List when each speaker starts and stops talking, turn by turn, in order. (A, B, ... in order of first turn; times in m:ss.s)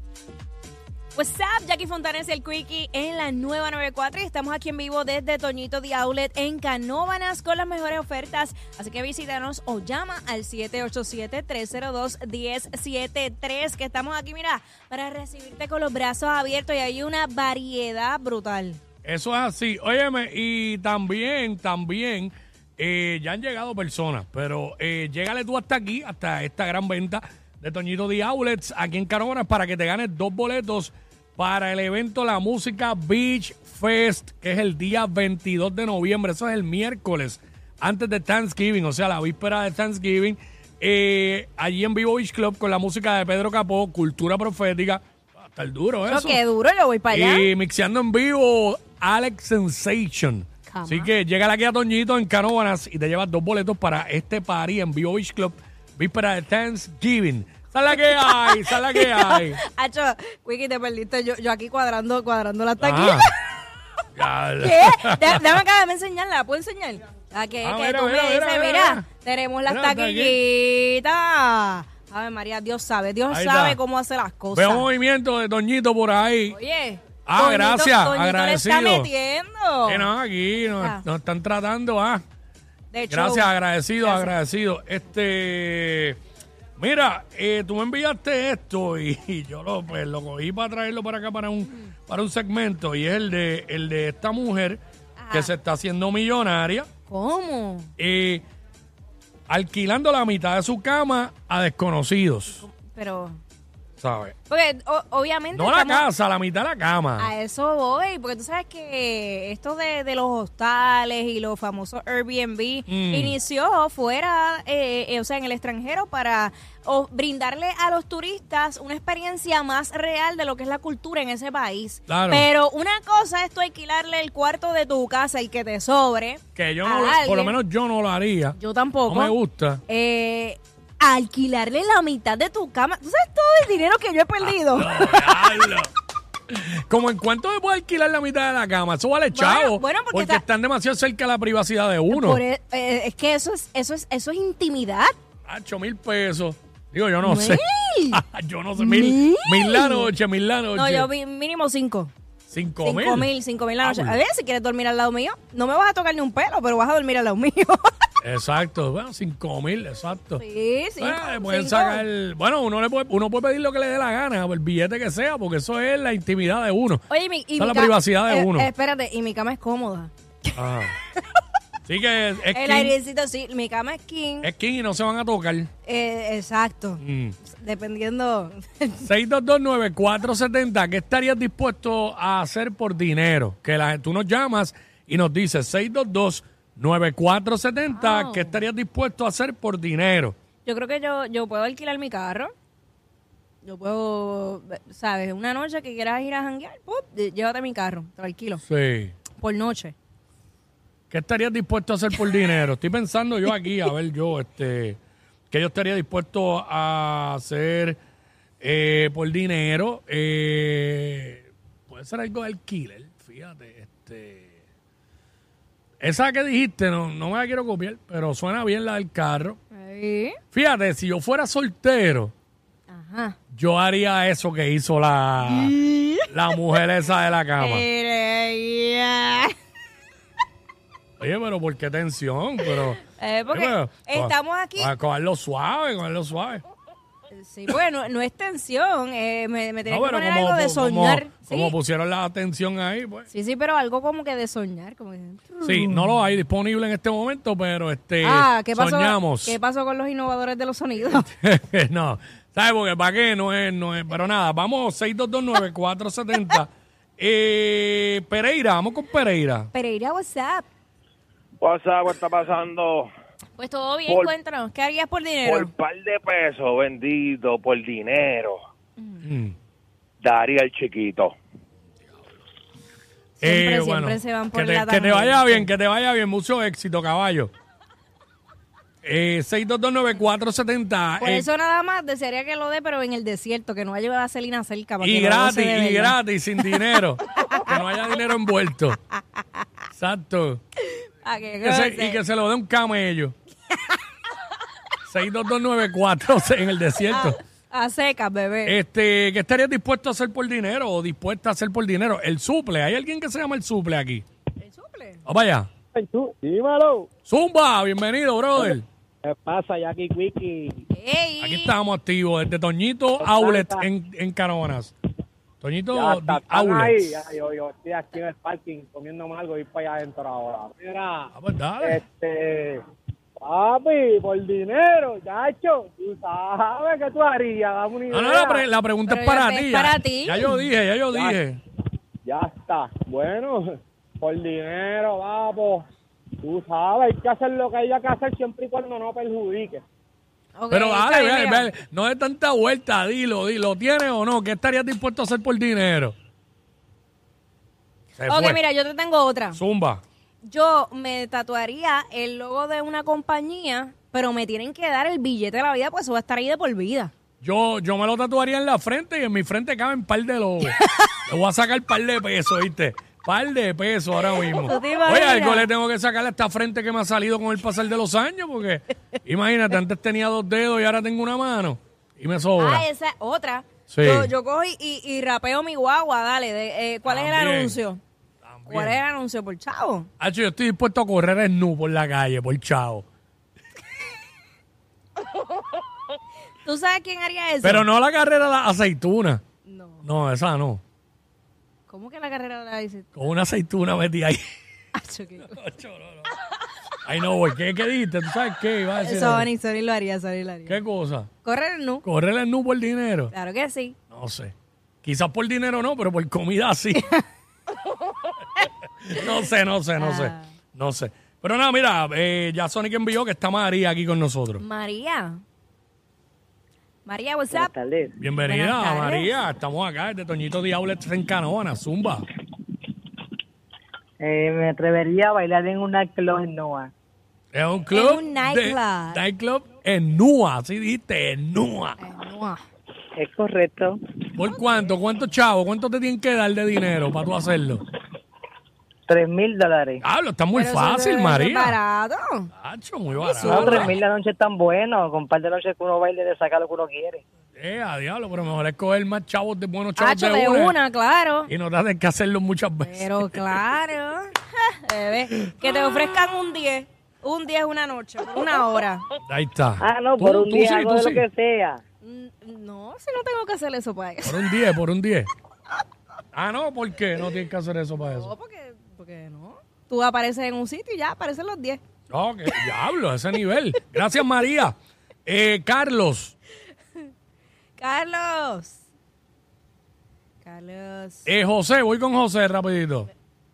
0:01.1-0:18.8 A
0:19.0-0:46.4 B
0:46.0-0:47.5 A
0:47.1-0:59.6 B
0:50.7-0:51.1 A
0:58.0-1:03.5 A
1:02.8-1:03.3 B
1:04.1-1:05.4 B
1:04.6-1:14.9 A
1:07.6-1:09.0 B
1:09.6-1:10.4 B
1:13.3-1:13.8 B
1:14.5-1:16.6 B
1:16.5-1:20.0 A
1:17.2-1:19.1 B
1:19.8-1:22.2 B
1:20.7-1:21.0 A
1:22.9-1:23.5 A
1:23.1-1:26.2 B
1:24.0-1:24.3 A
1:26.8-1:34.8 B
1:35.2-1:35.5 A
1:35.3-1:36.9 B
1:37.1-1:37.9 A
1:38.0-1:38.4 B
1:39.5-1:42.6 B
1:42.5-1:43.4 A
1:44.0-1:44.3 B
1:44.5-1:46.1 A
1:45.5-1:47.3 B
1:47.2-2:07.5 A
1:52.9-1:53.4 B
2:02.1-2:02.5 B
2:06.5-2:09.8 B
2:08.6-2:09.3 A
2:09.9-2:15.2 A
2:14.4-2:15.9 B
2:16.5-2:22.4 B
2:19.3-2:20.4 A
2:22.1-2:25.1 A
2:25.4-2:31.1 B
2:27.2-2:28.2 A
2:28.8-2:30.1 A
2:30.7-2:32.1 A
2:32.5-2:34.2 B
2:32.8-2:37.9 A
2:38.2-2:40.4 B
2:40.4-2:42.0 A
2:41.0-2:47.0 B
2:47.1-2:50.5 A
2:47.6-2:48.7 B
2:50.6-2:50.9 B
2:51.8-2:52.9 B
2:52.5-2:54.5 A
2:54.4-2:55.7 B
2:55.8-2:59.0 A
2:57.0-2:57.4 B
2:59.0-3:10.3 B
3:07.9-3:08.6 A
3:10.6-3:12.5 A
3:13.6-3:18.6 A
3:18.6-3:19.1 B
3:19.4-3:19.9 A
3:21.1-3:25.0 B
3:25.5-3:28.0 B
3:28.6-3:34.5 B
3:36.0-3:39.6 B
3:39.7-3:40.4 A
3:40.5-3:42.3 B
3:42.9-3:43.4 A
3:43.5-3:45.8 B
3:45.4-3:46.3 A
3:46.3-3:47.8 B
3:47.6-3:49.5 A
3:51.2-3:56.6 B
3:53.1-3:54.9 A
3:57.3-4:01.7 A
3:59.9-4:03.3 B
4:03.3-4:05.7 A
4:05.6-4:09.6 B
4:08.2-4:11.3 A
4:11.4-4:19.7 B
4:19.7-4:20.7 A
4:21.6-4:23.1 C
4:23.6-4:25.7 A
4:25.4-4:28.6 C
4:29.0-4:29.2 A
4:29.2-4:29.5 B
4:30.2-4:31.3 C
4:33.4-4:35.7 A
4:33.4-4:37.5 B
4:39.0-4:41.5 B
4:41.2-4:46.2 A
4:45.0-4:49.0 B
4:46.7-4:47.8 A
4:49.9-4:50.6 B
4:51.2-4:52.2 A
4:51.6-4:53.3 B
4:55.0-4:57.4 B
4:57.0-4:58.8 A
4:58.6-5:04.2 B
5:04.6-5:05.2 A
5:05.2-5:05.7 B
5:05.9-5:07.1 D
5:07.3-5:08.8 B
5:08.6-5:10.8 D
5:10.9-5:11.7 A
5:11.4-5:14.9 B
5:13.2-5:13.8 D
5:15.6-5:17.2 B
5:15.9-5:21.3 D
5:21.3-5:22.0 B
5:21.8-5:22.8 D
5:23.4-5:28.6 D
5:28.1-5:31.6 B
5:29.1-5:30.6 A
5:32.2-5:35.8 D
5:36.4-5:39.8 D
5:40.5-5:41.7 A
5:40.7-5:46.1 B
5:48.2-5:48.6 B
5:48.3-5:49.6 A
5:49.5-5:50.0 B
5:50.4-5:57.1 A
5:57.4-6:12.8 B
6:04.4-6:05.7 A
6:12.6-6:18.0 A
6:13.9-6:14.3 B
6:17.0-6:17.8 B
6:18.4-6:19.0 B
6:18.7-6:20.1 A
6:20.2-6:23.0 B
6:26.6-6:27.8 A
6:27.6-6:29.4 B
6:29.6-6:30.0 A
6:30.0-6:30.8 B
6:31.9-6:33.0 A
6:33.1-6:34.4 B
6:34.9-6:35.5 A
6:35.4-6:36.3 B
6:37.0-6:39.5 B
6:39.0-6:40.8 A
6:40.7-6:41.3 B
6:41.4-6:42.0 A
6:42.0-6:43.3 B
6:43.3-6:44.0 A
6:44.1-6:47.1 B
6:49.0-6:54.6 B
6:50.0-6:50.4 A
6:54.6-6:55.4 A
6:57.0-6:57.8 A
6:57.6-6:58.1 E
6:58.2-7:02.3 B
6:58.4-6:59.3 A
7:04.2-7:06.9 E
7:07.5-7:12.0 B
7:07.9-7:09.2 A
7:12.0-7:12.6 A
7:13.2-7:14.0 E
7:14.3-7:17.9 B
7:19.1-7:20.0 E
7:20.0-7:21.8 B
7:20.5-7:22.5 A
7:22.5-7:24.0 B
7:23.2-7:23.9 A
7:23.5-7:27.2 E
7:27.6-7:30.8 B
7:30.0-7:31.5 A
7:31.5-7:33.6 B
7:32.8-7:39.0 A
7:39.2-7:41.2 B
7:39.8-7:41.8 E
7:42.0-7:44.4 A
7:44.2-7:45.3 B
7:46.3-7:48.3 B
7:48.0-7:51.8 A
7:52.1-7:54.7 B
7:55.2-7:56.3 B
7:57.8-7:58.8 A
8:00.4-8:01.3 A
8:01.2-8:03.1 B